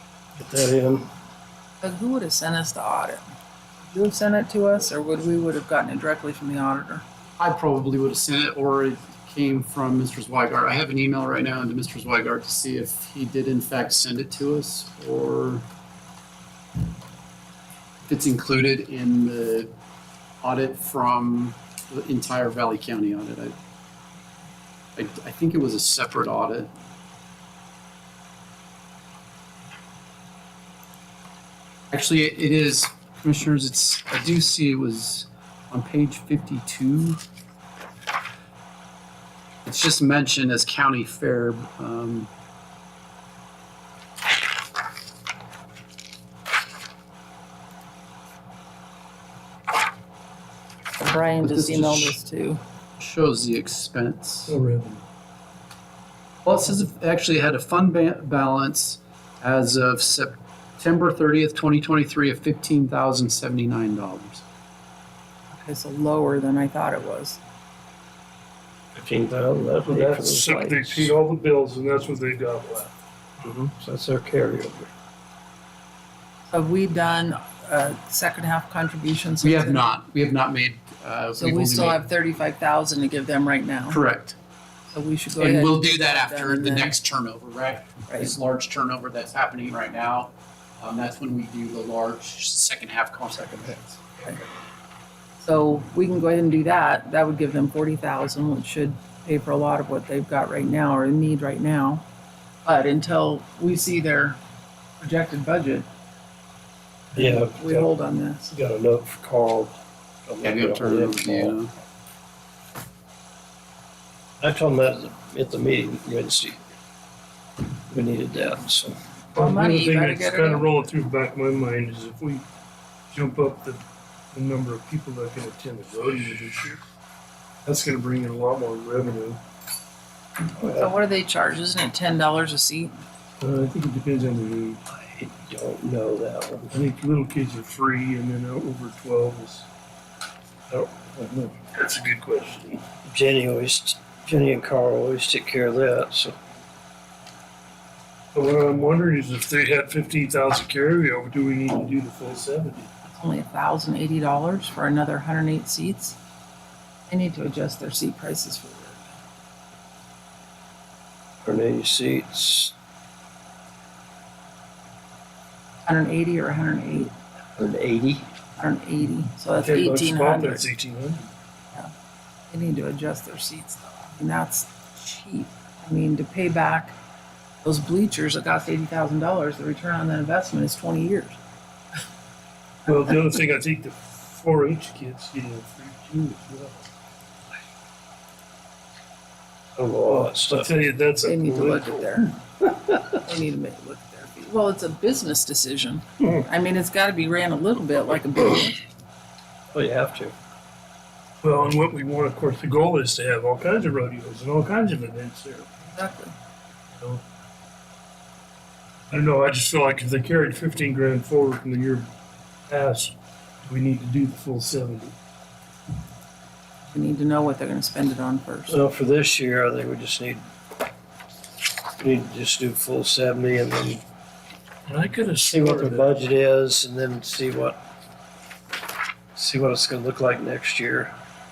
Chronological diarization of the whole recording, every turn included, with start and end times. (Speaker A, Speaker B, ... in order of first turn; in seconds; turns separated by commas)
Speaker A: 0.4-1.1, Speaker B: 1.8-3.2, Speaker B: 3.9-7.0, Speaker C: 7.4-15.7, Speaker C: 18.0-19.7, Speaker C: 20.4-23.6, Speaker C: 24.9-26.7, Speaker C: 31.9-37.2, Speaker C: 39.6-42.3, Speaker B: 51.0-52.6, Speaker C: 51.4-52.2, Speaker C: 53.0-54.5, Speaker D: 54.5-55.0, Speaker C: 56.4-64.4, Speaker B: 65.5-67.4, Speaker A: 68.9-71.1, Speaker D: 69.9-73.6, Speaker A: 73.6-74.9, Speaker B: 76.5-79.9, Speaker C: 79.4-82.0, Speaker B: 81.3-84.0, Speaker C: 83.9-84.3, Speaker B: 84.9-87.0, Speaker C: 85.4-94.0, Speaker B: 88.1-88.3, Speaker B: 95.4-102.0, Speaker B: 102.6-104.4, Speaker B: 105.0-105.9, Speaker A: 107.1-107.9, Speaker B: 107.1-108.5, Speaker A: 108.5-111.6, Speaker C: 110.4-111.7, Speaker A: 114.4-116.6, Speaker A: 117.9-118.9, Speaker D: 119.3-122.4, Speaker B: 119.3-120.8, Speaker D: 123.1-123.8, Speaker D: 124.3-126.8, Speaker D: 127.6-129.4, Speaker A: 130.6-130.9, Speaker B: 130.6-133.0, Speaker D: 133.4-134.8, Speaker A: 134.9-136.7, Speaker D: 136.7-139.7, Speaker D: 140.7-142.8, Speaker A: 143.0-146.3, Speaker D: 148.3-152.9, Speaker B: 153.1-156.2, Speaker B: 157.1-159.1, Speaker A: 161.4-162.7, Speaker B: 165.8-167.1, Speaker A: 167.6-168.2, Speaker B: 168.6-170.7, Speaker D: 169.6-171.3, Speaker B: 172.5-176.9, Speaker B: 177.6-181.4, Speaker D: 182.8-186.8, Speaker A: 189.8-190.7, Speaker D: 190.1-192.0, Speaker B: 191.2-192.4, Speaker B: 193.0-198.8, Speaker A: 199.7-200.3, Speaker D: 201.4-205.7, Speaker B: 205.8-206.3, Speaker D: 206.9-207.2, Speaker D: 209.1-212.1, Speaker D: 212.7-215.1, Speaker B: 216.9-218.8, Speaker A: 218.7-220.4, Speaker A: 222.0-224.0, Speaker D: 224.9-226.1, Speaker A: 225.5-227.8, Speaker A: 229.3-231.1